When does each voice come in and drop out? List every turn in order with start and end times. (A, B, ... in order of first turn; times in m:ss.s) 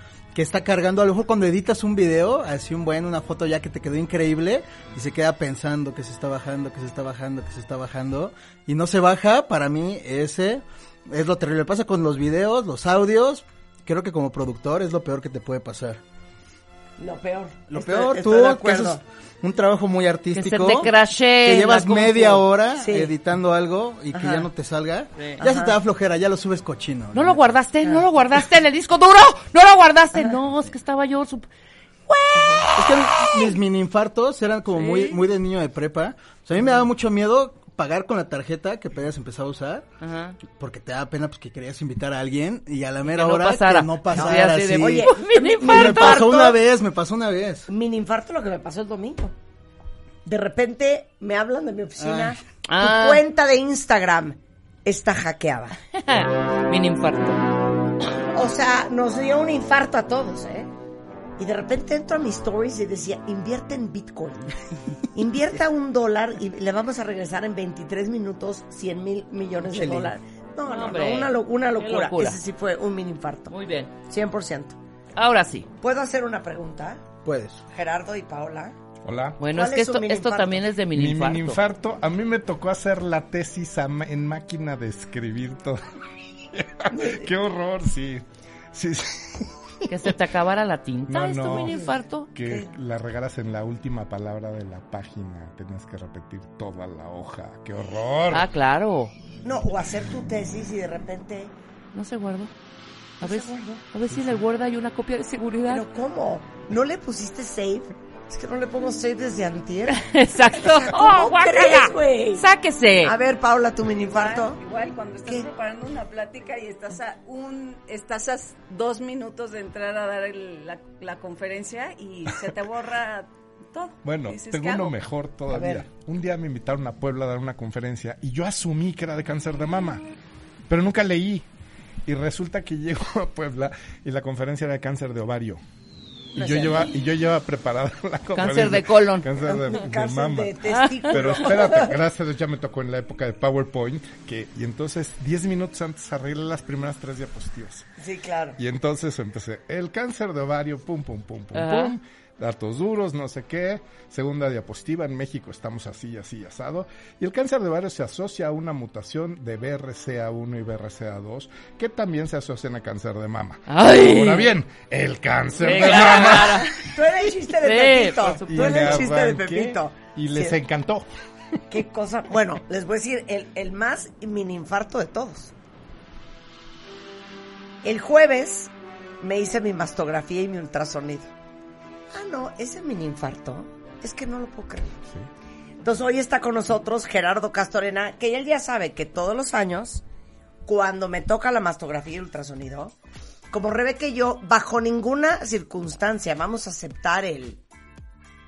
0:00.3-0:16.0 A
0:17.0-0:19.0 B
0:17.7-0:20.9 A
0:20.4-0:22.5 C
0:21.4-0:27.4 A
0:22.8-0:23.1 B
0:24.1-0:24.5 B
0:25.4-0:25.8 B
0:27.1-0:31.5 C
0:32.1-0:33.5 C
0:32.4-0:32.6 B
0:32.8-0:39.9 A
0:34.7-0:35.2 C
0:40.0-0:40.4 C
0:40.5-0:47.7 A
0:43.1-0:46.5 C
0:44.1-0:46.6 B
0:47.7-0:49.3 B
0:50.2-0:55.8 B
0:52.0-0:52.4 A
0:52.7-0:53.2 C
0:55.9-0:57.5 C
0:58.3-1:00.7 B
1:01.4-1:04.6 B
1:05.1-1:13.5 B
1:09.7-1:10.1 A
1:10.6-1:12.4 C
1:13.5-1:13.9 C
1:14.1-1:14.8 B
1:15.2-1:15.7 C
1:15.8-1:17.1 B
1:17.2-1:17.6 A
1:17.7-1:18.8 B
1:19.0-1:19.4 D
1:19.4-1:21.6 C
1:19.5-1:20.6 B
1:20.9-1:25.8 D
1:26.5-1:29.5 D
1:26.9-1:27.3 B
1:29.9-1:32.3 C
1:31.1-1:38.5 D
1:38.3-1:39.1 C
1:39.4-1:41.5 B
1:41.9-1:42.5 C
1:43.2-1:43.8 B
1:43.2-1:45.9 C
1:45.7-1:52.5 B
1:49.9-1:53.1 C
1:53.0-1:54.6 B
1:54.1-2:05.0 E
1:55.2-1:55.5 B
2:04.0-2:10.0 D
2:05.5-2:05.8 B
2:10.7-2:11.5 D
2:12.1-2:15.6 D
2:16.4-2:27.9 D
2:16.4-2:16.9 B
2:18.3-2:19.4 C
2:19.4-2:22.0 B
2:20.6-2:21.7 C
2:28.0-2:28.6 B
2:28.6-2:46.7 D
2:31.5-2:32.0 C
2:43.7-2:44.5 C
2:45.6-2:46.9 C
2:45.8-2:50.6 B
2:47.6-2:49.1 C
2:48.3-2:51.1 D
2:51.7-2:55.5 B
2:57.8-3:01.3 B
3:02.1-3:05.0 B
3:05.8-3:10.0 B
3:10.6-3:12.9 B
3:13.5-3:17.6 B